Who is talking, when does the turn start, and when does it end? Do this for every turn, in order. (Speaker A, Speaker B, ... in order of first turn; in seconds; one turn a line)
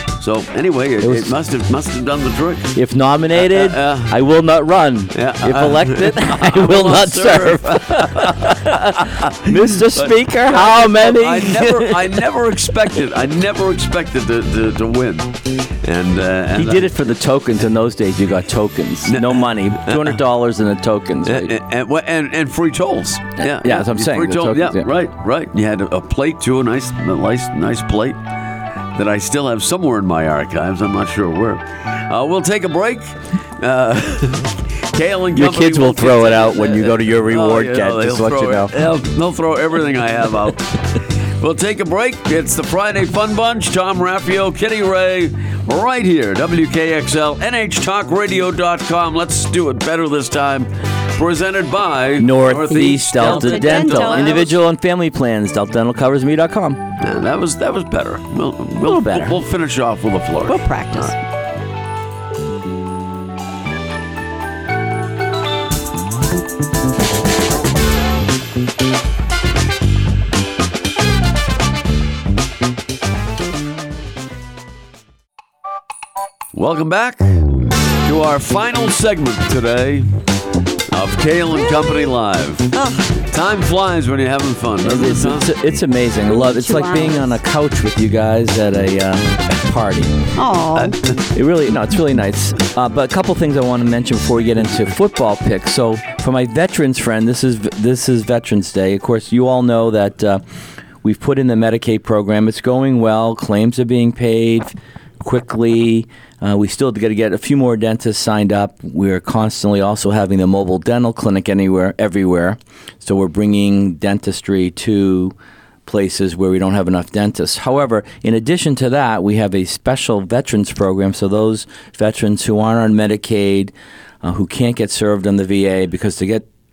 Speaker A: 0.2-2.7
Speaker B: 1.0-1.3
Speaker B: 2.7-12.2
Speaker A: 3.4-4.2
Speaker A: 5.1-16.9
Speaker B: 16.5-21.5
Speaker A: 19.1-20.2
Speaker A: 21.2-28.2
Speaker B: 23.4-24.9
Speaker A: 28.9-54.5
Speaker B: 35.3-38.7
Speaker B: 52.2-56.8
Speaker C: 53.1-54.5
Speaker A: 57.0-61.1
Speaker B: 58.8-59.4
Speaker C: 60.5-61.2
Speaker A: 76.5-80.1
Speaker A: 80.9-85.5
Speaker C: 81.7-81.9
Speaker C: 82.7-83.2
Speaker B: 84.8-90.1
Speaker C: 86.3-87.3
Speaker C: 90.3-91.0
Speaker A: 90.8-91.2
Speaker B: 91.3-100.4
Speaker B: 101.0-115.3
Speaker B: 115.8-126.5